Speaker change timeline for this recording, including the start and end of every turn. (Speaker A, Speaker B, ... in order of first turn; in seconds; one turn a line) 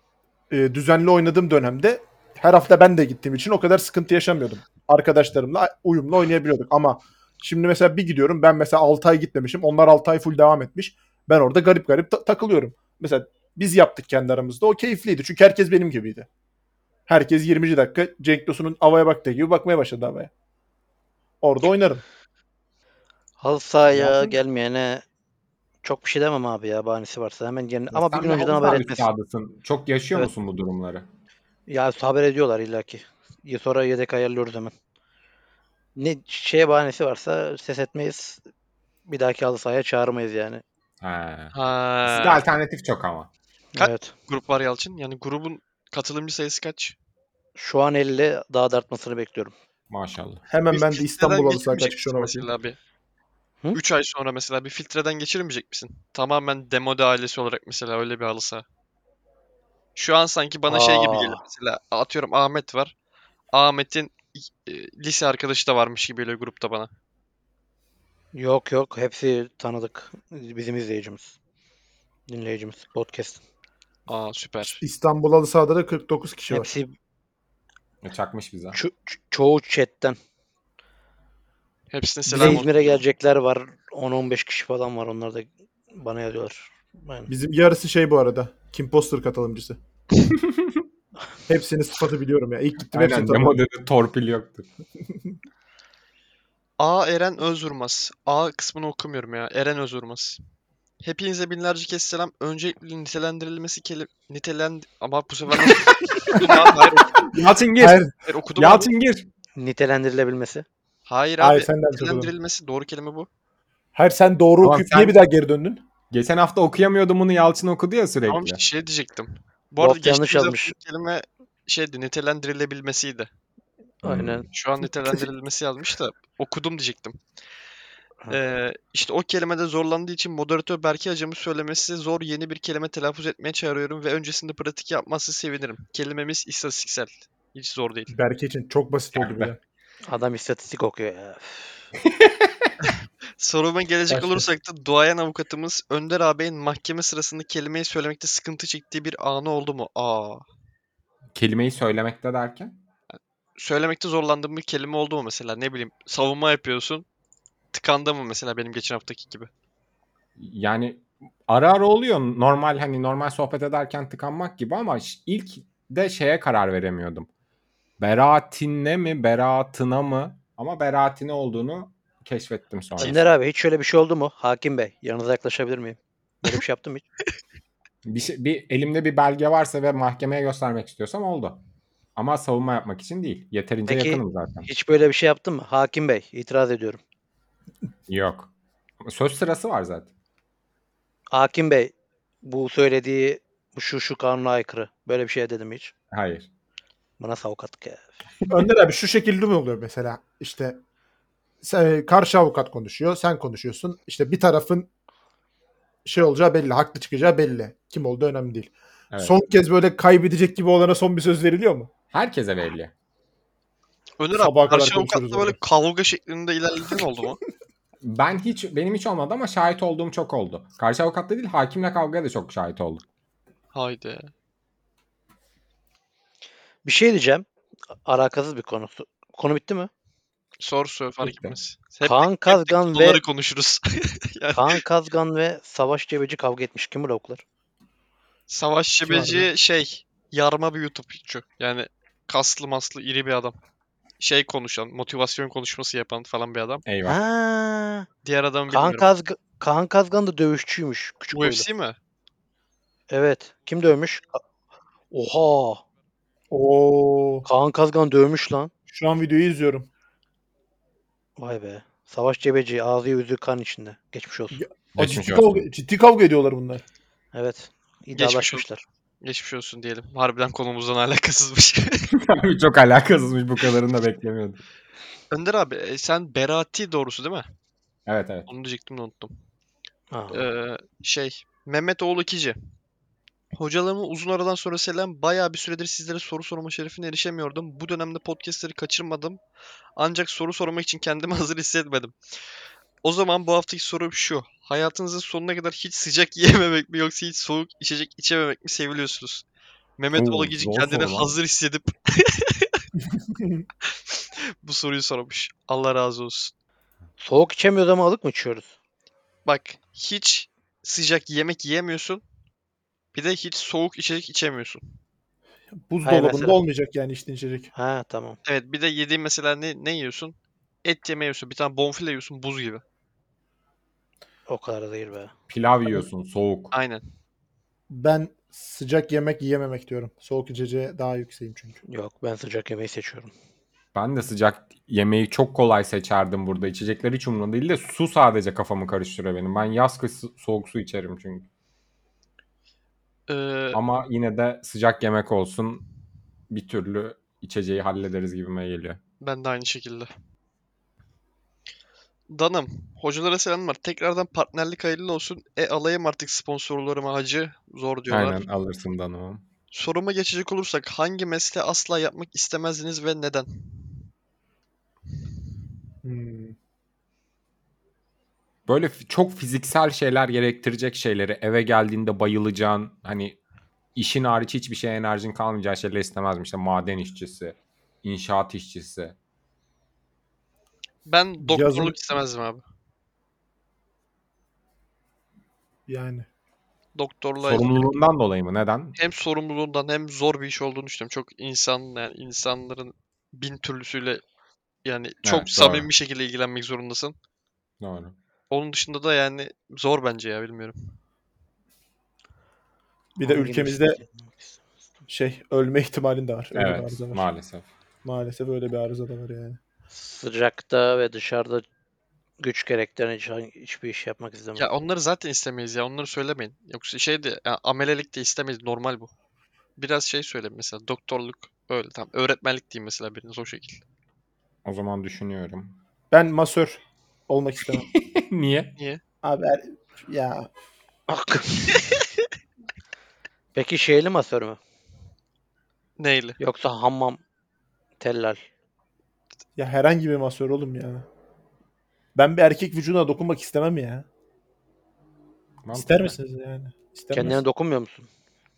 Speaker A: 0.5-16.3
Speaker A: 17.1-20.3
Speaker A: 21.4-22.0
Speaker B: 23.4-25.0
Speaker A: 23.9-24.4
Speaker B: 25.8-29.1
Speaker C: 27.9-31.1
Speaker B: 31.7-34.7
Speaker B: 36.0-38.4
Speaker B: 39.1-40.6
Speaker C: 41.0-43.3
Speaker D: 41.5-42.5
Speaker B: 43.7-44.1
Speaker D: 43.8-47.0
Speaker B: 47.6-49.5
Speaker C: 49.9-50.4
Speaker A: 50.5-52.5
Speaker D: 50.7-52.8
Speaker D: 53.7-58.6
Speaker D: 60.0-62.9
Speaker B: 60.7-61.4
Speaker D: 63.5-66.9
Speaker B: 68.3-71.4
Speaker B: 72.3-73.4
Speaker D: 74.1-74.8
Speaker A: 74.8-76.7
Speaker B: 76.5-76.9
Speaker C: 78.0-78.8
Speaker B: 78.7-80.2
Speaker D: 81.9-82.7
Speaker A: 82.3-82.6
Speaker B: 82.3-87.3
Speaker A: 87.3-89.8
Speaker C: 90.4-90.7
Speaker A: 91.5-93.6
Speaker C: 92.9-94.7
Speaker D: 96.8-100.4
Speaker D: 101.0-107.3
Speaker C: 107.2-108.0
Speaker A: 107.8-108.1
Speaker D: 108.2-108.9
Speaker C: 108.5-109.3
Speaker B: 109.6-110.7
Speaker D: 111.1-113.3
Speaker A: 111.4-112.3
Speaker A: 114.0-115.8
Speaker C: 114.6-115.2
Speaker C: 116.1-118.6
Speaker D: 118.3-123.3
Speaker B: 119.8-120.8
Speaker B: 124.0-124.5
Speaker C: 124.0-124.5
Speaker D: 124.5-127.2
Speaker D: 128.3-138.1
Speaker A: 138.1-139.6
Speaker C: 139.2-139.5
Speaker B: 140.1-141.9
Speaker C: 142.1-142.7
Speaker D: 142.8-150.4
Speaker A: 144.1-144.4
Speaker C: 151.3-152.8
Speaker D: 153.1-157.1
Speaker D: 157.7-159.5
Speaker C: 160.4-167.3
Speaker C: 168.0-173.2
Speaker B: 173.0-177.1
Speaker C: 178.0-181.6
Speaker C: 182.2-184.7
Speaker B: 183.9-187.0
Speaker C: 188.1-190.1
Speaker B: 191.3-195.9
Speaker C: 196.1-196.5
Speaker B: 197.2-198.1
Speaker A: 198.5-200.8
Speaker A: 201.6-204.9
Speaker A: 206.1-211.9
Speaker C: 212.1-212.9
Speaker D: 214.2-217.4
Speaker A: 214.3-215.6
Speaker C: 218.0-223.0
Speaker D: 223.7-224.3
Speaker B: 226.8-227.4
Speaker B: 228.1-229.9
Speaker D: 230.6-234.8
Speaker C: 231.2-231.6
Speaker B: 232.0-233.2
Speaker B: 234.5-237.4
Speaker D: 238.5-243.6
Speaker A: 239.1-239.5
Speaker D: 244.2-246.8
Speaker C: 246.8-247.2
Speaker B: 247.1-248.1
Speaker D: 248.2-249.1
Speaker B: 248.7-251.7
Speaker D: 251.3-252.0
Speaker B: 253.1-254.4
Speaker B: 255.1-255.8
Speaker A: 256.5-257.5
Speaker B: 257.4-258.7
Speaker A: 258.9-259.9
Speaker B: 261.4-264.6
Speaker A: 264.5-266.8
Speaker C: 265.0-265.7
Speaker B: 267.3-268.8
Speaker D: 268.1-268.6
Speaker D: 269.2-272.1
Speaker C: 272.1-274.6
Speaker D: 275.3-277.4
Speaker C: 278.1-278.5
Speaker D: 278.5-279.3
Speaker B: 280.1-280.4
Speaker D: 280.3-282.6
Speaker D: 283.6-289.4
Speaker D: 290.0-292.1
Speaker D: 293.0-299.4
Speaker D: 300.0-302.9
Speaker C: 300.2-301.4
Speaker D: 303.9-306.5
Speaker B: 307.2-308.7
Speaker D: 309.5-312.2
Speaker D: 313.1-314.8
Speaker A: 315.9-317.7
Speaker B: 316.0-316.6
Speaker B: 317.8-318.4
Speaker D: 318.5-322.8
Speaker B: 324.5-325.3
Speaker C: 325.5-326.7
Speaker D: 326.7-327.0
Speaker A: 327.9-331.8
Speaker B: 331.9-333.3
Speaker C: 333.9-341.5
Speaker D: 343.3-343.8
Speaker C: 343.7-345.8
Speaker C: 346.5-349.0
Speaker D: 349.2-350.1
Speaker D: 352.3-358.4
Speaker C: 358.1-359.4
Speaker D: 359.7-364.0
Speaker A: 366.0-366.6
Speaker C: 368.7-373.4
Speaker C: 373.9-379.2
Speaker D: 381.1-382.6
Speaker A: 381.4-381.9
Speaker A: 385.9-386.3
Speaker D: 387.0-387.8
Speaker C: 387.4-389.0
Speaker D: 389.0-394.2
Speaker D: 394.9-397.1
Speaker C: 395.2-395.9
Speaker C: 397.8-398.1
Speaker D: 398.5-400.8
Speaker A: 403.2-404.0
Speaker B: 403.2-404.6
Speaker A: 405.1-407.2
Speaker C: 406.5-407.7
Speaker A: 408.0-409.6
Speaker B: 409.9-411.6
Speaker B: 412.4-414.7
Speaker D: 414.6-419.1
Speaker D: 419.8-423.8
Speaker C: 424.6-425.8
Speaker A: 426.1-427.9
Speaker C: 427.9-428.8
Speaker A: 429.2-430.5
Speaker B: 431.1-431.9
Speaker B: 433.5-434.6
Speaker D: 436.0-436.4
Speaker B: 436.4-437.2
Speaker B: 438.0-438.4
Speaker A: 439.6-441.1
Speaker A: 442.1-444.1
Speaker C: 445.6-446.2
Speaker A: 445.7-447.4
Speaker B: 447.1-448.1